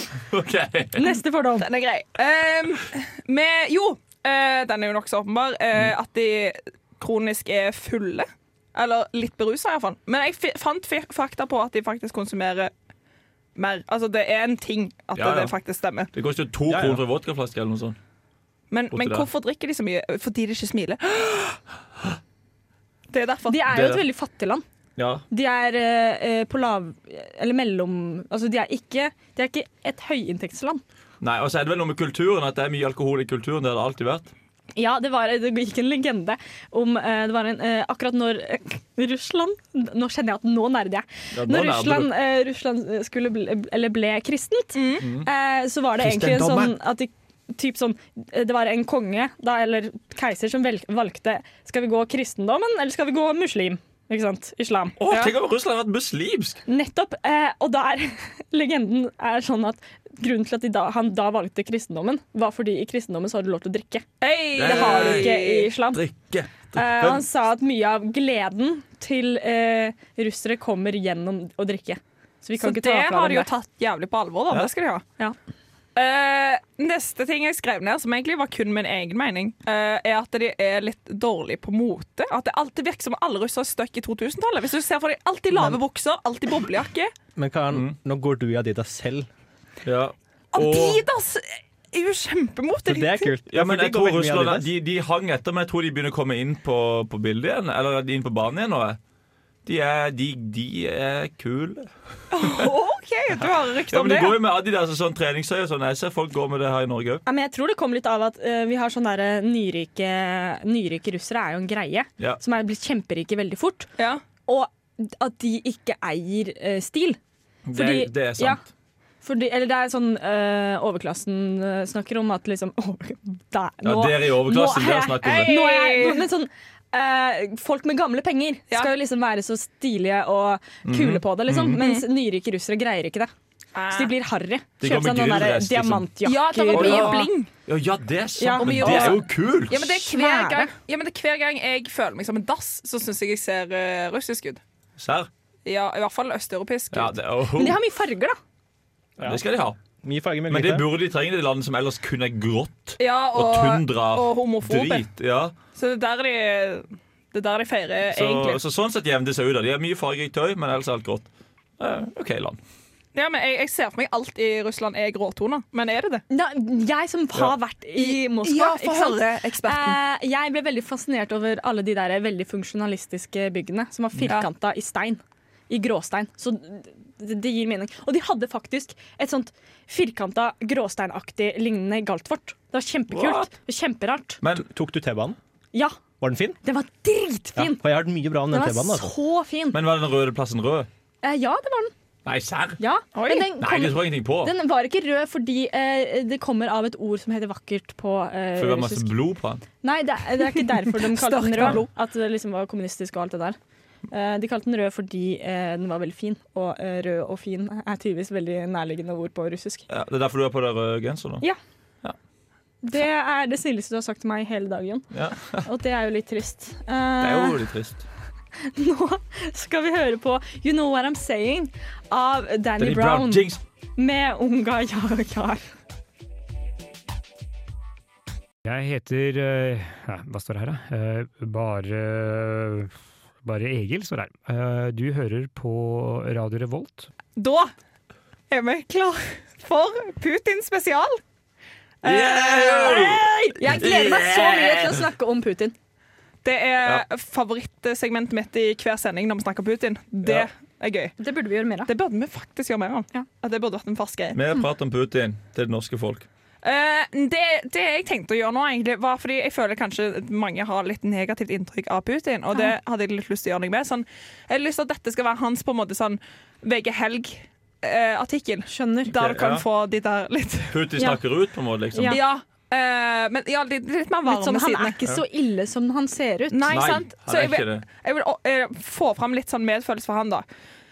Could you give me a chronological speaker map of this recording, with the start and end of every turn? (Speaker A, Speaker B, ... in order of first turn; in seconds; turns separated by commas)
Speaker A: 0.3-1.1, Speaker B: 1.0-1.7, Speaker C: 1.6-12.7, Speaker C: 13.6-16.1, Speaker A: 15.2-15.5, Speaker A: 16.1-18.0, Speaker D: 16.7-17.0, Speaker C: 18.7-21.6, Speaker A: 18.9-19.3, Speaker C: 23.1-23.7, Speaker B: 23.5-24.6, Speaker A: 23.7-24.0, Speaker A: 25.0-25.2, Speaker B: 25.3-30.8, Speaker A: 31.2-34.3, Speaker B: 34.8-55.0, Speaker A: 41.3-42.1, Speaker C: 44.7-45.1, Speaker A: 45.0-45.3, Speaker A: 46.0-46.7, Speaker D: 46.3-46.6, Speaker A: 55.0-56.6, Speaker B: 56.7-66.0, Speaker C: 64.2-65.7, Speaker A: 64.6-65.3, Speaker A: 65.9-67.2, Speaker B: 66.7-73.5, Speaker C: 72.6-75.0, Speaker C: 76.0-87.1, Speaker D: 85.5-85.8, Speaker D: 87.4-89.3, Speaker A: 89.8-91.0, Speaker C: 90.5-93.3, Speaker D: 92.9-94.7, Speaker A: 93.5-99.0, Speaker A: 99.7-101.9, Speaker C: 102.3-104.4, Speaker A: 103.9-107.2, Speaker B: 107.3-113.9, Speaker B: 114.5-117.2, Speaker A: 117.7-118.7, Speaker B: 117.7-118.6, Speaker B: 119.2-133.3, Speaker A: 123.8-125.5, Speaker C: 125.2-126.3, Speaker A: 130.8-131.8, Speaker C: 131.8-132.1, Speaker C: 133.8-134.1, Speaker B: 133.9-137.3, Speaker A: 134.8-136.1, Speaker C: 136.2-137.5, Speaker A: 136.7-139.9, Speaker B: 138.4-139.2, Speaker C: 138.6-144.6, Speaker B: 139.9-140.7, Speaker A: 145.0-145.3, Speaker C: 145.7-147.2, Speaker A: 146.9-147.8, Speaker B: 147.6-148.4, Speaker A: 149.2-149.8, Speaker D: 150.0-150.9, Speaker A: 150.5-155.5, Speaker C: 153.0-155.1, Speaker C: 155.8-158.6, Speaker A: 158.1-161.3, Speaker A: 161.8-162.6, Speaker C: 163.1-166.2, Speaker B: 166.3-184.4, Speaker C: 168.0-170.0, Speaker A: 183.1-183.5, Speaker D: 184.6-185.4, Speaker B: 185.7-186.0, Speaker D: 186.2-186.6, Speaker B: 186.6-187.8, Speaker D: 187.6-189.1, Speaker B: 188.5-189.8, Speaker A: 189.7-190.9, Speaker B: 191.2-191.9, Speaker A: 192.2-192.8, Speaker B: 192.8-199.1, Speaker C: 193.2-193.5, Speaker A: 193.6-194.5, Speaker A: 198.6-199.6, Speaker B: 199.8-203.6, Speaker C: 201.1-201.9, Speaker B: 204.1-209.8, Speaker A: 209.9-211.4, Speaker B: 212.8-215.1, Speaker A: 215.1-215.7, Speaker B: 215.6-217.6, Speaker A: 217.2-218.0, Speaker B: 218.6-225.6, Speaker A: 222.8-223.6, Speaker E: 228.7-237.1, Speaker C: 237.4-237.7, Speaker C: 238.5-241.2, Speaker C: 242.0-243.7, Speaker A: 242.0-245.0, Speaker B: 242.8-245.8, Speaker C: 246.4-251.2, Speaker A: 250.2-250.5, Speaker B: 251.2-251.9, Speaker C: 251.8-254.4, Speaker A: 254.3-256.3, Speaker C: 256.6-271.1, Speaker B: 268.7-269.1, Speaker A: 269.1-269.6, Speaker A: 270.7-272.2, Speaker B: 271.9-272.2, Speaker C: 272.0-275.0, Speaker B: 274.3-276.8, Speaker C: 276.5-280.4, Speaker A: 276.7-277.9